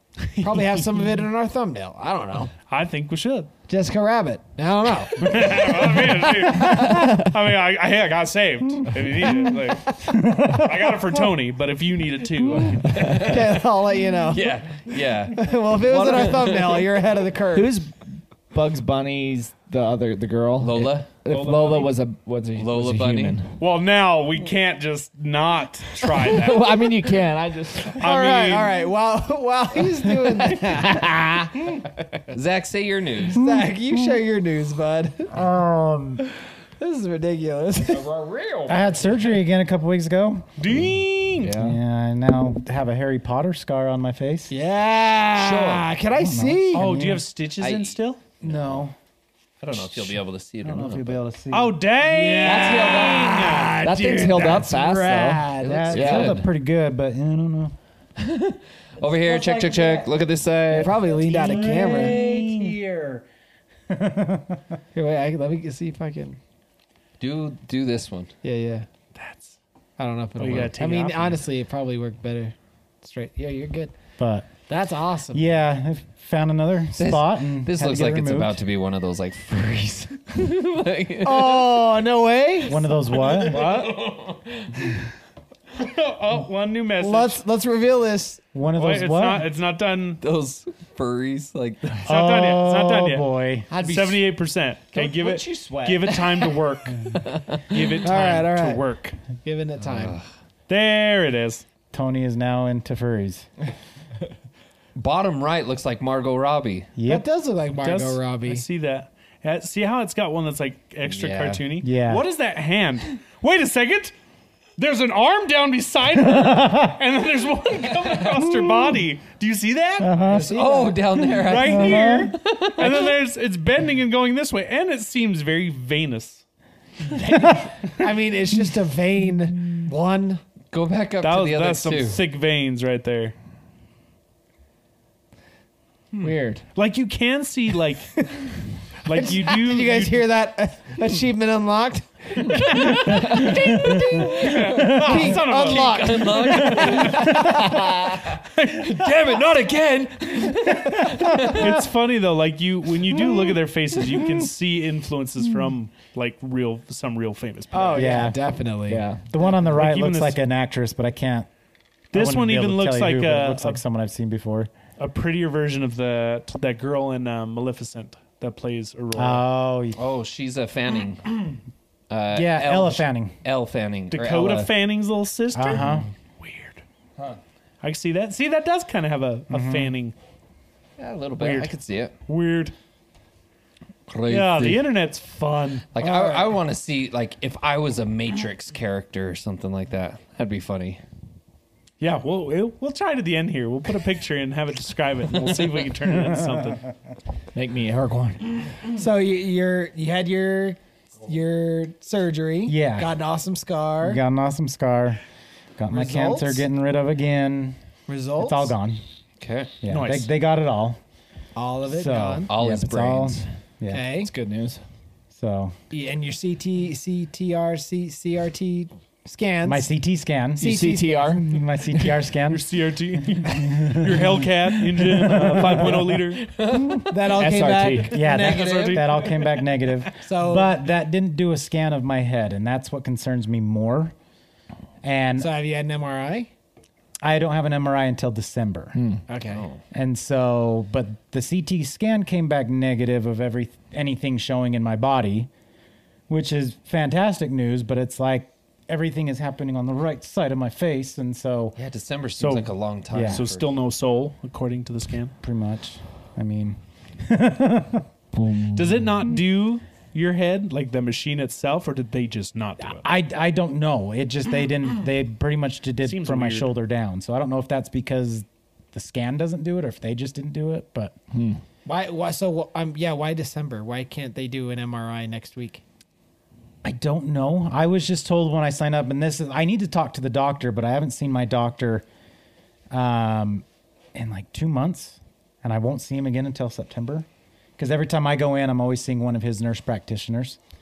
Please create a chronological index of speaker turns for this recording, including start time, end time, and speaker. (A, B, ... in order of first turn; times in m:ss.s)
0:00.4-0:00.9 A
0:00.4-0:02.5 B
0:02.7-0:03.5 A
0:03.7-0:06.6 B
0:05.1-0:13.6 A
0:10.1-0:11.1 C
0:13.0-0:13.3 D
0:13.0-0:14.6 B
0:14.3-0:16.8 D
0:15.3-0:17.7 B
0:16.1-0:16.6 A
0:17.5-0:23.6 E
0:20.6-0:21.1 D
0:21.3-0:21.9 A
0:22.6-0:23.4 D
0:23.6-0:26.8 A
0:26.1-0:28.0 E
0:27.9-0:28.7 A
0:28.0-0:31.1 B
0:30.2-0:31.7 E
0:32.3-0:33.4 D
0:33.3-0:35.3 B
0:33.4-0:33.7 C
0:35.3-0:36.2 C
0:36.8-0:38.1 B
0:37.8-0:39.3 E
0:38.7-0:40.5 C
0:40.6-0:41.6 A
0:41.4-0:41.8 E
0:41.5-0:44.5 C
0:44.5-0:46.9 B
0:45.3-0:45.9 D
0:46.2-0:47.3 C
0:46.7-0:48.3 A
0:47.6-0:48.8 D
0:48.4-0:49.0 C
0:49.6-0:51.2 D
0:50.6-0:51.8 C
0:51.5-0:53.9 A
0:52.0-0:55.8 B
0:52.5-0:53.3 D
0:53.8-0:56.4 E
0:54.6-0:57.8 C
0:55.6-0:56.5 D
0:58.2-1:01.1 D
0:59.0-1:00.1 C
1:00.7-1:02.2 B
1:01.0-1:03.3 C
1:02.0-1:02.7 A
1:02.2-1:02.5 D
1:03.9-1:04.8 C
1:04.9-1:06.4 B
1:07.2-1:08.3 D
1:08.4-1:08.9 B
1:09.2-1:09.6 A
1:10.0-1:14.0 B
1:10.4-1:11.4 A
1:14.2-1:14.5 C
1:14.7-1:15.5 B
1:15.3-1:18.6 C
1:17.0-1:21.9 D
1:21.2-1:22.9 B
1:22.7-1:23.8 C
1:23.1-1:24.9 D
1:23.5-1:23.8 B
1:25.8-1:27.4 A
1:27.0-1:28.4 B
1:28.5-1:29.5 C
1:28.8-1:30.2 A
1:30.2-1:32.0 D
1:32.0-1:39.2 A
1:32.1-1:33.7 C
1:33.7-1:34.2 D
1:34.9-1:36.2 E
1:37.3-1:37.9 D
1:38.0-1:38.8 B
1:39.4-1:40.2 B
1:39.9-1:40.2 D
1:40.7-1:41.7 A
1:41.9-1:43.5 C
1:45.0-1:46.9 D
1:47.0-1:47.2 C
1:47.0-1:48.6 B
1:47.8-1:54.2 A
1:51.1-1:51.6 D
1:51.8-1:52.2 C
1:54.8-2:00.2 A
1:56.3-1:57.0 C
1:58.4-1:59.0 C
2:00.0-2:00.5 C
2:00.3-2:01.3 B
2:00.3-2:03.1 D
2:01.4-2:06.4 A
2:01.6-2:02.3 C
2:07.2-2:10.4 B
2:10.7-2:12.2 D
2:11.2-2:13.4 A
2:16.2-2:16.6 E
2:16.8-2:18.2 A
2:19.0-2:20.2 A
2:19.1-2:27.8 B
2:22.7-2:23.5 A
2:23.0-2:25.3 C
2:24.2-2:31.7 D
2:24.2-2:29.2 A
2:27.3-2:27.6 C
2:30.8-2:31.8 C
2:31.3-2:38.2 A
2:37.7-2:39.1 B
2:38.0-2:38.4 C
2:38.9-2:39.2 E
2:39.3-2:41.5 C
2:39.4-2:40.4 A
2:42.1-2:43.8 A
2:42.1-2:44.7 C
2:45.0-2:49.4 A
2:49.1-2:50.0 C
2:50.0-2:51.6 D
2:52.1-2:54.7 D
2:52.3-2:53.3 C
2:54.1-2:56.8 A
2:55.5-2:56.1 C
2:57.8-3:00.2 A
2:59.5-3:00.0 C
3:01.0-3:02.2 D
3:01.4-3:01.7 A
3:02.3-3:02.7 A
3:04.1-3:04.9 D
3:04.3-3:05.9 A
3:05.9-3:11.0 D
3:06.0-3:06.5 B
3:12.0-3:16.8 A
3:17.6-3:18.6 E
3:18.9-3:24.2 B
3:22.7-3:23.1 C
3:24.0-3:25.2 C
3:25.8-3:27.8 C
3:25.9-3:26.7 B
3:28.1-3:28.7 B
3:28.4-3:29.0 C
3:29.4-3:29.8 D
3:29.8-3:31.0 C
3:29.9-3:30.3 A
3:31.6-3:32.5 B
3:31.9-3:34.0 C
3:32.5-3:33.5 D
3:33.9-3:34.3 B
3:34.2-3:34.8 E
3:35.3-3:35.8 C
3:35.9-3:39.9 B
3:39.6-3:42.7 C
3:40.6-3:41.4 B
3:40.6-3:41.5 E
3:42.5-3:46.5 A
3:43.3-3:46.2 C
3:46.4-3:47.1 D
3:46.7-3:47.0 C
3:47.1-3:49.0 B
3:47.4-3:48.2 E
3:48.1-3:54.2 C
3:48.3-3:49.3 D
3:48.6-3:49.2 A
3:50.2-3:50.8 B
3:55.0-3:55.5 C
3:55.4-3:56.5 B
3:57.2-3:59.0 C
3:59.0-3:59.2 E
3:59.3-3:59.7 B
3:59.5-3:59.8 D
3:59.9-4:05.5 C
4:06.3-4:11.8 C
4:11.8-4:13.7 D
4:12.4-4:15.4 A
4:13.1-4:13.4 C
4:15.4-4:18.1 C
4:18.3-4:19.1 E
4:18.7-4:23.0 A
4:22.9-4:31.2 C
4:26.0-4:26.7 A
4:31.3-4:31.6 E
4:31.8-4:35.8 B
4:36.8-4:42.1 C
4:42.9-4:47.3 C
4:47.8-4:50.6 C